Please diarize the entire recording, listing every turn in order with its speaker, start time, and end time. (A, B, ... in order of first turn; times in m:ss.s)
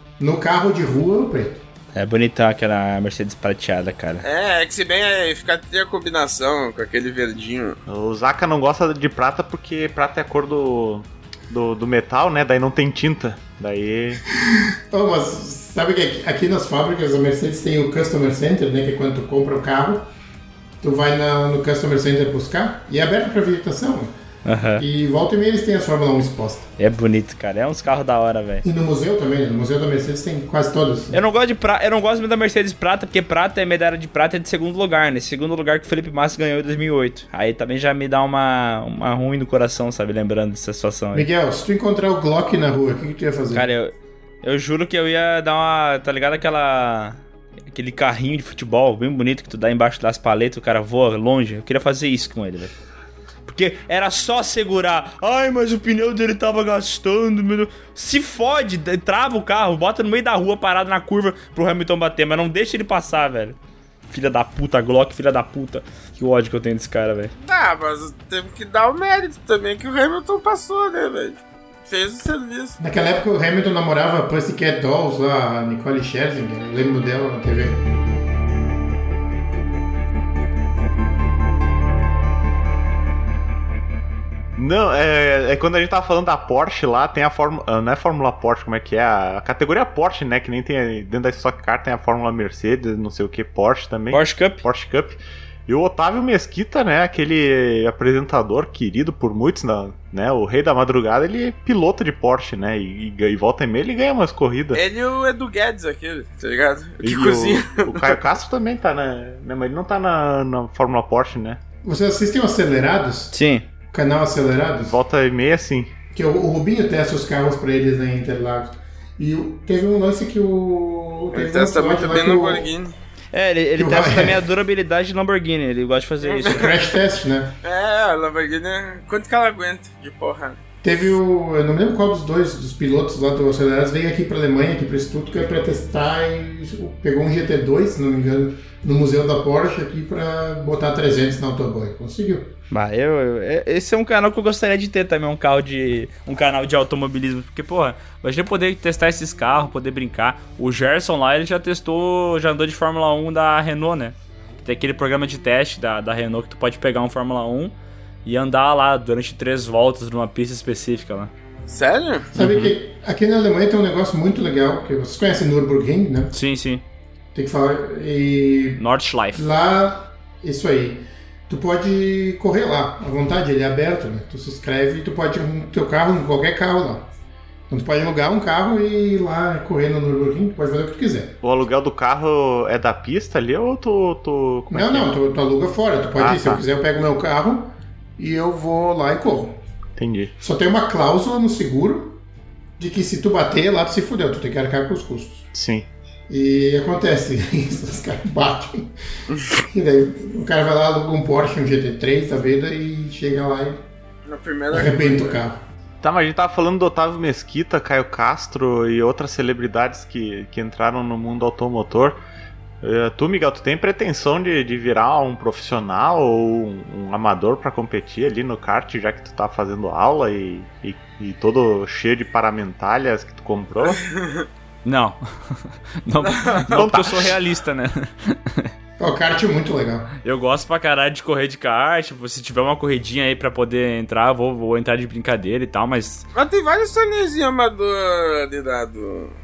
0:00.2-0:01.6 A
0:01.9-0:04.2 B
0:04.2-0:07.8 C
0:07.9-0:14.2 D
0:14.4-0:20.0 A
0:20.8-0:24.1 A
0:24.4-0:24.8 B
0:24.8-0:26.7 A
0:26.8-0:28.6 B
0:28.6-0:31.2 A
0:31.1-0:41.3 B
0:41.1-0:43.6 A
0:43.5-0:47.2 B
0:47.7-0:52.7 B
0:53.5-1:03.6 B
1:04.1-1:07.3 B
1:07.4-1:12.8 C
1:12.8-1:17.8 A
1:24.6-1:44.8 D
1:34.1-1:34.6 B
1:44.7-1:48.2 C
1:47.0-1:51.6 D
1:51.8-1:53.3 A
1:53.3-1:53.6 B
1:53.9-1:55.0 A
1:54.8-1:55.9 D
1:56.1-2:02.7 A
2:01.3-2:02.9 C
2:03.3-2:06.7 B
2:03.8-2:04.4 A
2:06.2-2:06.7 C
2:06.5-2:07.5 A
2:07.6-2:10.6 C
2:10.8-2:22.5 A
2:22.7-2:41.3 B
2:41.7-2:42.3 C
2:42.3-2:46.3 A
2:42.4-2:42.7 B
2:46.3-2:46.8 B
2:47.3-2:48.8 A
2:48.8-2:49.5 B
2:49.3-2:57.1 A
2:57.7-3:01.4 A
3:01.4-3:05.1 D
3:04.7-3:09.6 A
3:06.2-3:06.6 D
3:10.0-3:10.3 D
3:10.4-3:12.2 A
3:12.8-3:15.4 A
3:15.5-3:15.9 D
3:16.3-3:18.9 A
3:19.7-3:23.8 A
3:24.2-3:25.4 C
3:24.7-3:25.6 A
3:26.0-3:32.2 D
3:32.8-3:44.0 D
3:43.9-3:44.4 C
3:44.8-3:48.7 B
3:46.2-3:47.0 C
3:46.7-3:47.3 D
3:49.0-3:50.1 A
3:50.2-3:56.2 B
3:56.3-3:59.3 C